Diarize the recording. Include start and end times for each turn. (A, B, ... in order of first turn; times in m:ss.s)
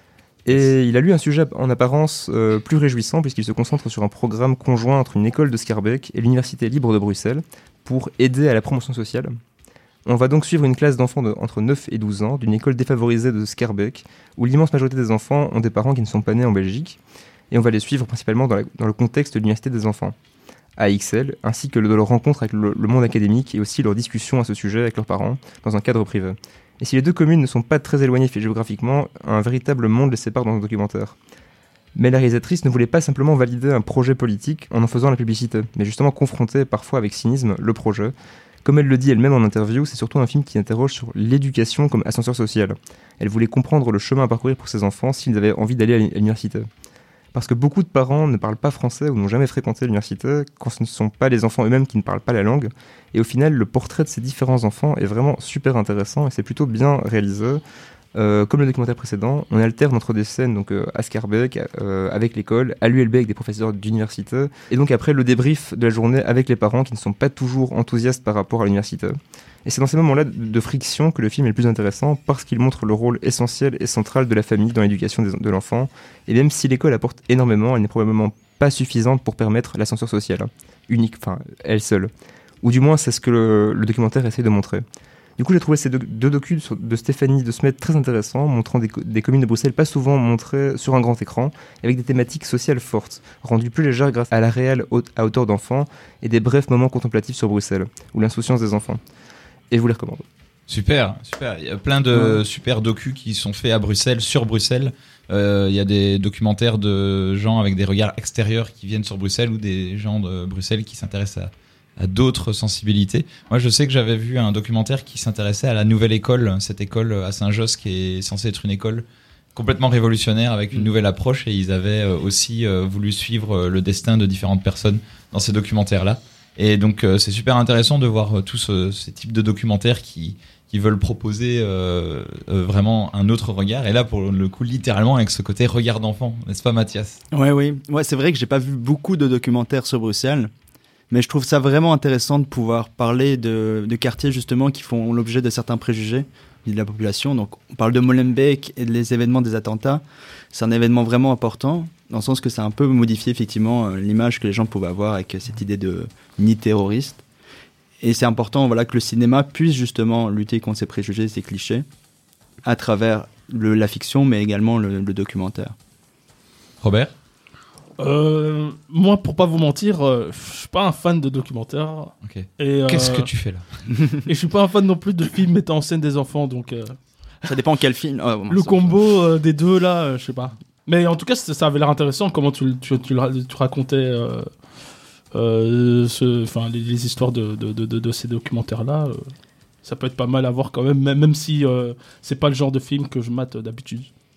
0:00.4-0:09.4 A
0:10.0-0:17.0 A
0:17.5-0:20.1 A
0:20.8-0:31.2 A
0:31.9-0:46.7 A
0:47.3-0:57.6 A
0:58.1-1:22.1 A
1:22.6-1:24.8 A
1:25.4-1:39.0 A
1:39.7-1:40.2 A
1:40.7-2:17.2 B
2:17.3-2:20.5 C
2:21.1-2:37.2 C
2:38.0-2:41.8 C
2:42.6-2:45.7 C
2:46.8-2:47.1 B
2:48.0-2:53.3 D
2:52.2-2:53.6 B
2:54.2-2:57.0 D
2:57.4-2:59.0 C
2:58.5-3:04.5 D
3:05.3-3:09.3 D
3:09.8-3:14.1 D